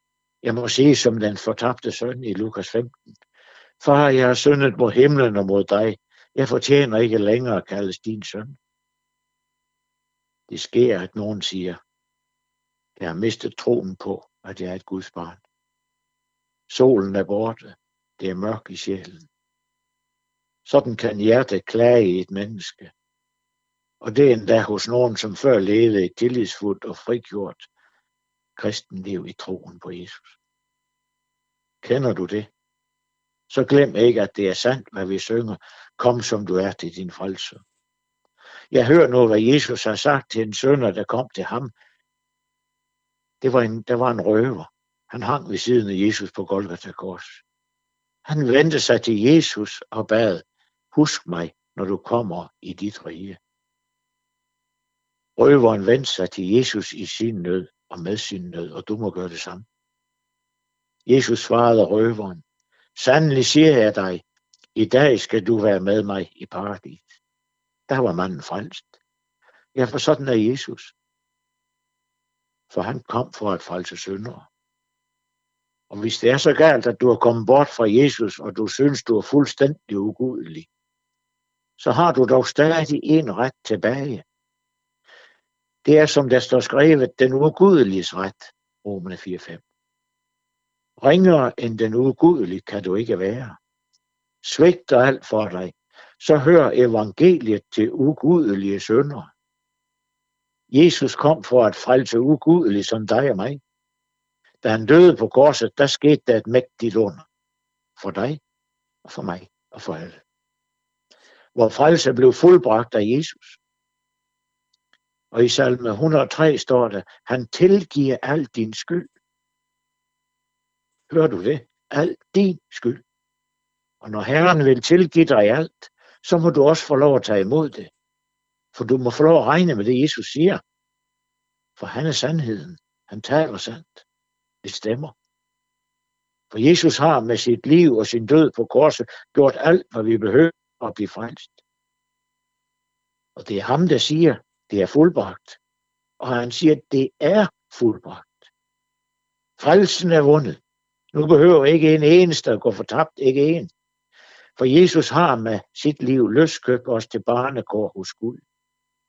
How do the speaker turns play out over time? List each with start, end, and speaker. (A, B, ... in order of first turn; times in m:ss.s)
0:00.4-0:03.1 A
0:03.8-0:08.6 A
0:10.5-0:11.8 A
0:13.0-0:15.4 A
0:16.7-0:19.3 A
0:20.6-0:22.9 A
0:24.0-0:27.7 A
0:28.6-0:30.4 A
0:31.8-0:32.5 A
0:33.5-0:37.6 A
0:38.7-0:41.7 A
0:43.4-0:47.4 A
0:48.2-0:53.4 A
0:55.4-0:59.7 A
1:01.0-1:02.4 A
1:02.9-1:04.2 A
1:04.7-1:07.2 A
1:07.9-1:09.0 A
1:09.7-1:10.9 A
1:12.7-1:14.5 A
1:15.9-1:20.7 A
1:21.8-1:24.2 A
1:25.8-1:29.6 A
1:31.0-1:33.6 A
1:34.4-1:39.3 A
1:40.7-1:43.6 A
1:44.6-1:47.3 A
1:48.0-1:48.4 A
1:49.0-1:50.2 A
1:51.5-1:53.6 A
1:55.3-1:59.1 A
2:01.1-2:03.0 A
2:04.0-2:07.9 A
2:08.7-2:10.6 A
2:11.8-2:14.0 A
2:14.6-2:15.2 A
2:16.5-2:21.6 A
2:23.4-2:25.6 A
2:26.2-2:28.5 A
2:29.6-2:30.6 A
2:31.1-2:33.7 A
2:34.6-2:38.4 A